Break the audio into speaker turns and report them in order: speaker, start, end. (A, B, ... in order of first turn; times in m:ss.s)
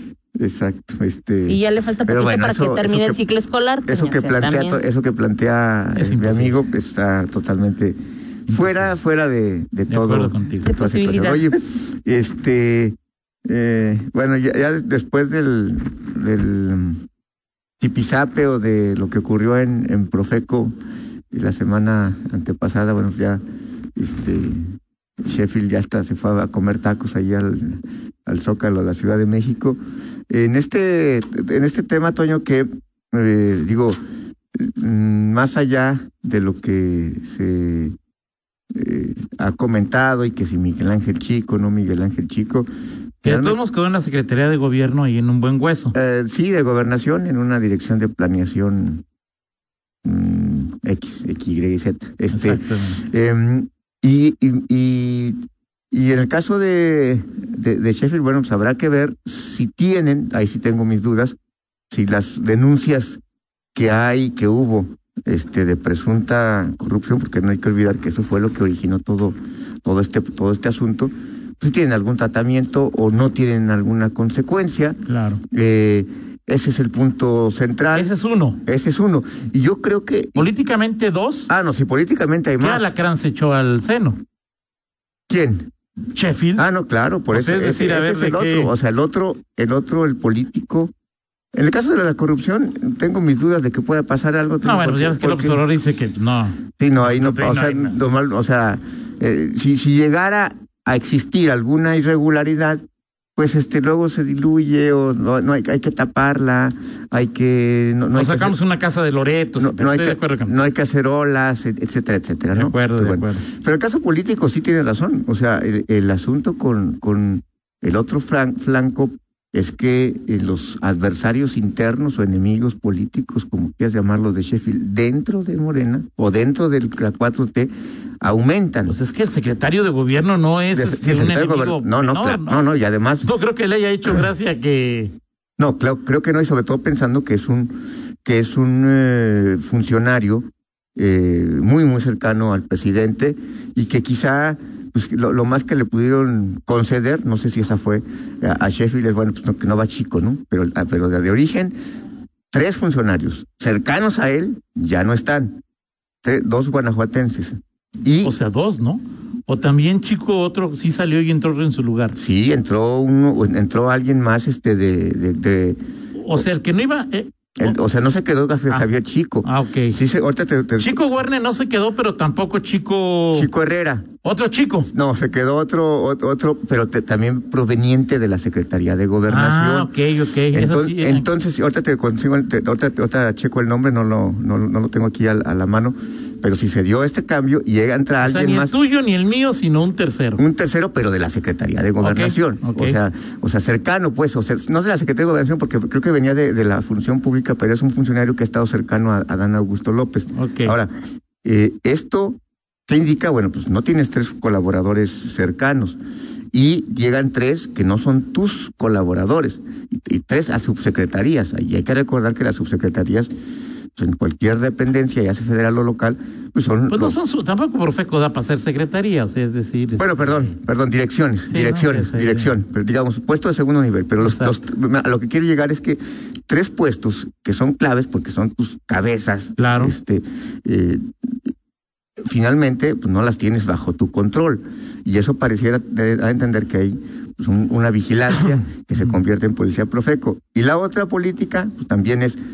0:00.4-0:03.2 A
0:01.5-0:04.8 B
0:03.9-0:13.0 A
0:05.9-0:06.6 C
0:08.5-0:08.9 C
0:09.9-0:10.7 C
0:10.6-0:11.5 B
0:13.5-0:17.0 A
0:17.8-0:20.7 A
0:21.3-0:23.4 A
0:24.0-0:29.8 A
0:30.3-0:34.0 A
0:34.6-0:37.9 A
0:38.7-0:42.7 A
0:43.2-0:43.6 A
0:43.2-0:45.9 C
0:45.9-0:49.0 A
0:50.0-0:55.4 A
0:52.3-0:53.0 C
0:55.9-1:01.4 A
1:01.9-1:03.2 A
1:03.7-1:15.0 A
1:15.0-1:15.4 C
1:15.5-1:20.5 A
1:17.9-1:18.6 C
1:20.4-1:21.5 C
1:21.5-1:22.9 A
1:22.6-1:24.2 C
1:25.3-1:25.7 A
1:26.1-1:26.6 C
1:26.6-1:30.9 A
1:27.3-1:28.7 C
1:31.5-1:35.6 A
1:34.6-1:38.0 C
1:36.8-1:42.8 A
1:43.4-1:48.5 A
1:48.1-1:50.7 C
1:49.6-2:09.0 A
1:52.5-1:53.4 C
2:08.9-2:15.1 C
2:10.7-2:13.3 A
2:15.6-2:31.7 A
2:32.5-2:35.6 A
2:36.2-2:38.3 A
2:38.2-2:42.2 C
2:42.2-2:45.8 A
2:46.2-2:47.8 C
2:47.6-2:51.0 A
2:49.4-2:50.0 C
2:50.8-2:53.5 C
2:53.3-2:54.0 A
2:54.2-2:54.9 C
2:54.9-2:59.9 A
2:59.3-3:01.3 C
3:00.5-3:08.7 A
3:08.2-3:10.4 C
3:10.4-3:20.9 A
3:12.0-3:13.0 C
3:20.3-3:20.8 C
3:21.4-3:26.0 A
3:26.5-3:33.3 A
3:34.0-3:37.2 A
3:36.9-3:40.5 C
3:40.0-3:51.0 A
3:41.5-3:42.6 C
3:44.2-3:44.6 C
3:49.6-3:49.9 C
3:52.2-4:02.4 A